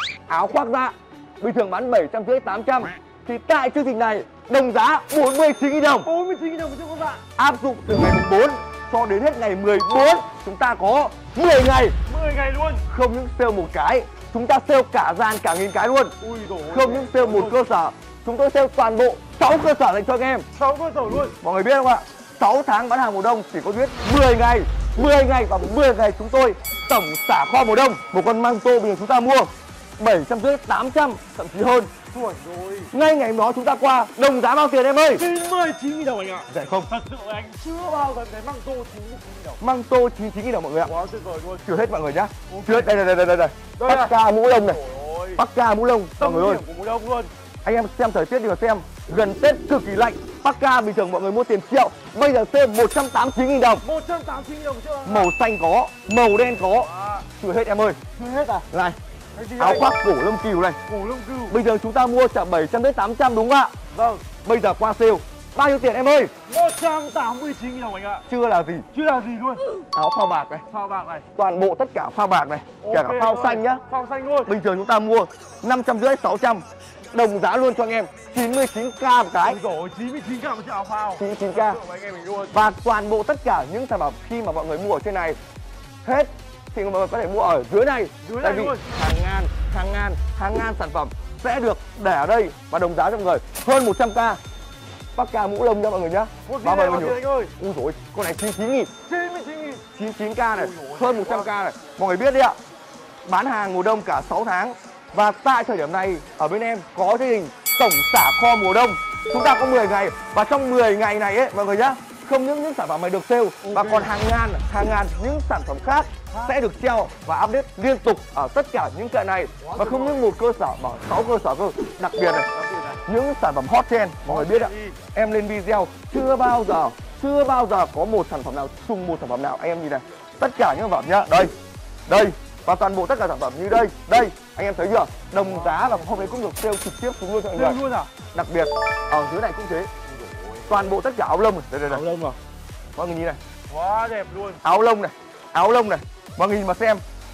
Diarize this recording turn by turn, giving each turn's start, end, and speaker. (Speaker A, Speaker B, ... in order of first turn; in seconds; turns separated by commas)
Speaker A: 0.3-6.1, Speaker B: 6.0-7.2, Speaker A: 7.3-11.9, Speaker B: 12.1-12.8, Speaker A: 12.9-16.1, Speaker B: 16.2-17.6, Speaker A: 16.7-20.4, Speaker B: 20.5-21.3, Speaker A: 21.4-31.9, Speaker B: 32.1-32.9, Speaker A: 32.9-35.2, Speaker B: 35.2-39.6, Speaker A: 36.5-36.9, Speaker A: 39.6-40.9, Speaker B: 40.8-41.7, Speaker A: 41.6-44.8, Speaker B: 42.5-42.9, Speaker B: 43.8-45.4, Speaker A: 45.4-46.6, Speaker B: 46.2-47.3, Speaker A: 47.6-53.8, Speaker B: 53.8-55.3, Speaker A: 55.0-58.0, Speaker B: 56.7-57.2, Speaker B: 58.1-58.7, Speaker A: 58.7-59.0, Speaker B: 59.3-59.9, Speaker A: 59.6-60.8, Speaker B: 60.9-61.6, Speaker A: 61.5-63.7, Speaker B: 63.9-64.2, Speaker A: 64.4-66.3, Speaker B: 66.5-68.2, Speaker A: 68.3-68.9, Speaker B: 68.9-69.6, Speaker A: 69.9-70.6, Speaker B: 70.7-71.2, Speaker A: 71.3-73.8, Speaker B: 72.8-74.5, Speaker A: 74.5-79.6, Speaker B: 79.4-82.6, Speaker A: 81.2-81.8, Speaker A: 82.5-85.4, Speaker A: 86.0-94.4, Speaker B: 88.2-88.8, Speaker A: 95.1-98.9, Speaker B: 96.4-97.5, Speaker B: 99.0-99.8, Speaker A: 99.9-102.5, Speaker B: 100.5-101.5, Speaker A: 103.2-122.5, Speaker B: 113.6-114.1, Speaker B: 116.3-116.6, Speaker B: 119.6-120.3, Speaker B: 122.5-123.0, Speaker A: 123.0-131.5, Speaker B: 124.2-125.0, Speaker A: 132.1-137.8, Speaker B: 135.3-136.4, Speaker B: 137.5-138.1, Speaker A: 138.3-139.9, Speaker B: 140.1-140.9, Speaker A: 140.7-142.0, Speaker B: 141.9-142.3, Speaker A: 142.9-143.4, Speaker B: 143.7-144.6, Speaker A: 144.6-147.0